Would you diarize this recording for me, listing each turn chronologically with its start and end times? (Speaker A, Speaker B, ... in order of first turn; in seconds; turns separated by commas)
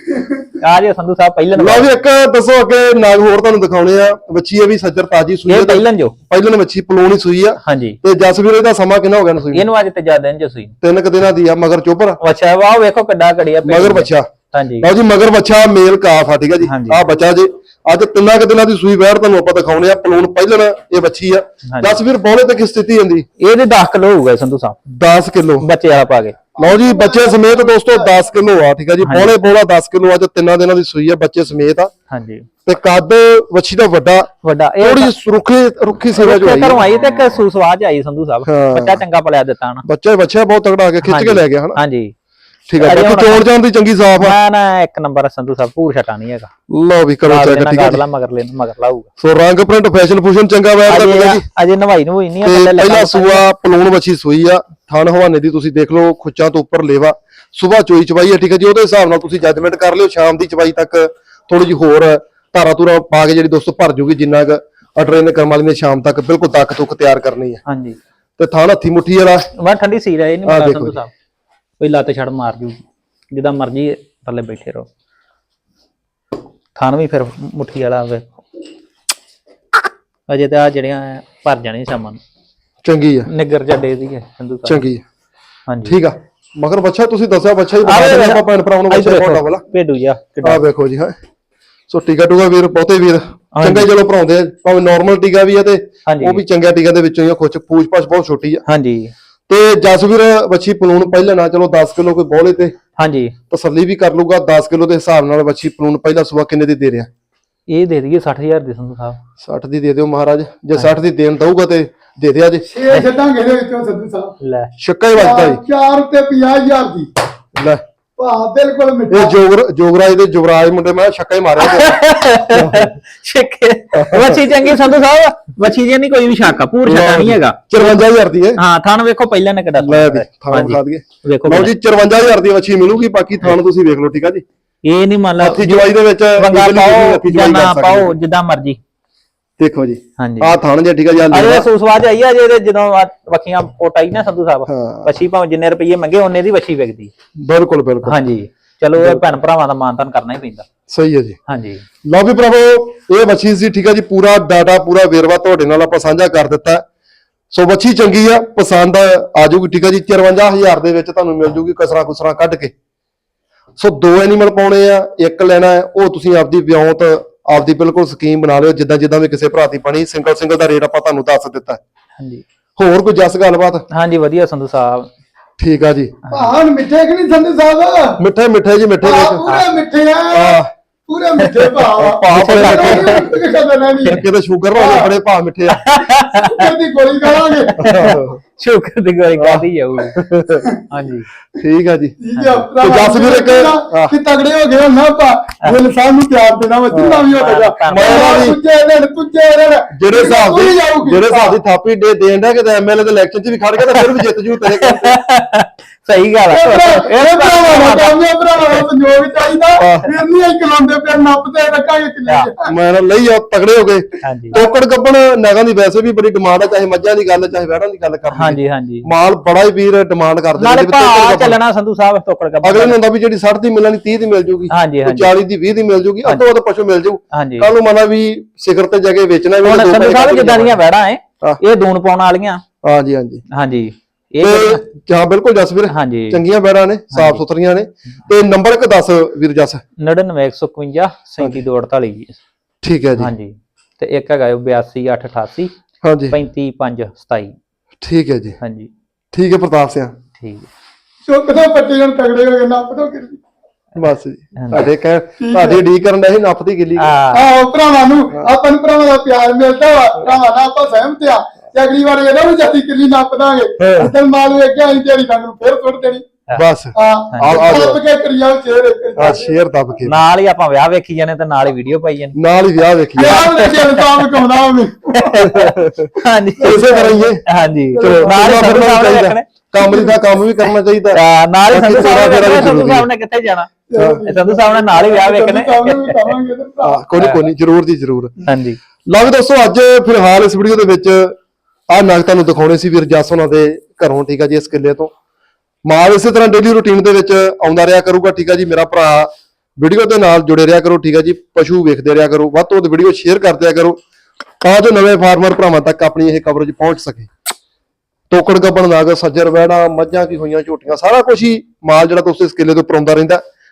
Speaker A: 0.1-0.4, Speaker B: 0.6-2.0, Speaker C: 1.5-9.7, Speaker B: 5.5-6.2, Speaker B: 7.6-8.0, Speaker B: 9.5-10.8, Speaker C: 10.8-12.2, Speaker B: 12.2-14.9, Speaker C: 13.6-14.3, Speaker C: 14.8-23.2, Speaker B: 16.6-17.0, Speaker B: 21.6-22.0, Speaker B: 23.4-24.8, Speaker C: 24.9-25.7, Speaker B: 25.6-26.4, Speaker A: 26.6-28.3, Speaker C: 26.6-31.9, Speaker B: 29.0-29.3, Speaker B: 32.1-32.5, Speaker C: 32.6-34.3, Speaker B: 34.4-35.1, Speaker C: 34.8-37.0, Speaker B: 36.1-39.8, Speaker C: 38.4-39.0, Speaker C: 39.8-41.8, Speaker B: 41.0-42.1, Speaker C: 42.7-44.4, Speaker B: 42.8-43.5, Speaker B: 44.1-46.5, Speaker C: 46.7-48.0, Speaker B: 47.2-49.1, Speaker C: 49.2-51.4, Speaker B: 50.9-53.4, Speaker C: 52.4-67.6, Speaker B: 67.7-68.0, Speaker C: 68.4-69.5, Speaker B: 69.6-71.1, Speaker C: 70.4-71.0, Speaker B: 71.8-74.9, Speaker B: 76.8-78.2, Speaker B: 80.3-82.2, Speaker C: 82.8-83.3, Speaker B: 83.3-84.8, Speaker C: 84.7-85.0, Speaker B: 85.7-86.0, Speaker C: 85.8-89.6, Speaker B: 87.8-90.6, Speaker C: 90.4-91.2, Speaker C: 91.9-98.6, Speaker B: 93.5-93.9, Speaker B: 96.1-96.4, Speaker B: 98.7-99.1, Speaker C: 99.5-102.7, Speaker B: 103.0-103.3, Speaker C: 103.5-107.1, Speaker B: 107.7-109.2, Speaker C: 109.4-112.7, Speaker A: 112.7-114.3, Speaker B: 114.4-114.7, Speaker C: 114.8-115.6, Speaker A: 115.1-117.1, Speaker C: 117.5-117.8, Speaker A: 118.2-119.4, Speaker C: 119.1-121.9, Speaker B: 121.6-128.0, Speaker C: 122.5-122.9, Speaker C: 123.9-124.4, Speaker C: 126.8-128.6, Speaker B: 128.6-131.7, Speaker C: 129.8-134.4, Speaker B: 134.8-138.8, Speaker C: 135.4-138.1, Speaker C: 139.6-141.7, Speaker B: 140.2-140.6, Speaker B: 141.3-147.1, Speaker C: 144.7-145.1, Speaker C: 147.4-148.2, Speaker B: 148.0-150.7, Speaker C: 148.9-149.2, Speaker C: 150.9-151.4, Speaker B: 151.5-151.8, Speaker C: 152.0-156.8, Speaker C: 157.5-162.7, Speaker C: 163.8-171.8, Speaker B: 172.2-172.4, Speaker C: 172.8-173.8, Speaker B: 173.9-175.1, Speaker C: 175.6-176.2, Speaker A: 176.3-178.2, Speaker C: 178.2-179.5, Speaker A: 179.0-185.1, Speaker C: 180.3-180.7, Speaker B: 181.4-181.7, Speaker C: 182.0-183.2, Speaker B: 182.3-183.3, Speaker C: 184.1-185.8, Speaker B: 185.7-186.6, Speaker A: 186.3-188.1, Speaker B: 187.5-190.2, Speaker C: 187.8-188.4, Speaker C: 189.4-190.6, Speaker B: 190.9-191.3, Speaker C: 191.6-192.2, Speaker A: 192.2-201.6, Speaker B: 192.3-192.7, Speaker C: 192.8-194.1, Speaker C: 196.9-197.3, Speaker B: 197.3-198.4, Speaker C: 197.9-198.6, Speaker C: 199.9-205.2, Speaker B: 204.8-208.8, Speaker A: 206.4-212.7, Speaker C: 209.8-210.1, Speaker C: 212.6-221.6, Speaker B: 214.2-214.6, Speaker B: 218.3-219.1, Speaker B: 220.6-223.0, Speaker C: 222.6-230.8, Speaker B: 224.7-225.3, Speaker B: 227.3-227.7, Speaker B: 229.6-232.6, Speaker C: 232.8-233.4, Speaker B: 233.5-234.8, Speaker C: 234.4-239.8, Speaker B: 235.9-236.4, Speaker B: 237.1-237.4, Speaker B: 240.0-242.4, Speaker C: 242.8-243.3, Speaker B: 243.2-245.7, Speaker C: 246.0-246.3, Speaker B: 246.3-247.5, Speaker C: 248.0-248.6, Speaker B: 248.6-248.9, Speaker C: 249.3-250.1, Speaker B: 250.4-250.7, Speaker A: 251.2-253.4, Speaker C: 254.0-257.1, Speaker B: 254.6-254.9, Speaker A: 255.4-255.8, Speaker B: 257.0-257.4, Speaker A: 257.3-266.2, Speaker C: 263.8-264.1, Speaker C: 266.5-268.0, Speaker A: 266.9-269.6, Speaker B: 267.3-267.8, Speaker C: 269.2-270.2, Speaker B: 270.0-272.3, Speaker C: 272.3-273.4, Speaker A: 273.1-275.5, Speaker B: 273.2-274.5, Speaker B: 275.1-276.9, Speaker C: 275.4-276.1, Speaker A: 276.6-278.7, Speaker C: 276.6-277.4, Speaker B: 277.4-279.5, Speaker C: 278.0-283.1, Speaker A: 279.8-280.3, Speaker B: 281.1-283.7, Speaker A: 283.9-287.0, Speaker C: 283.9-284.2, Speaker B: 284.2-286.3, Speaker C: 286.8-288.3, Speaker B: 287.1-287.4, Speaker B: 288.4-288.8, Speaker C: 289.1-291.4, Speaker C: 291.9-295.1, Speaker C: 295.9-304.0, Speaker C: 304.6-307.3, Speaker C: 308.3-313.4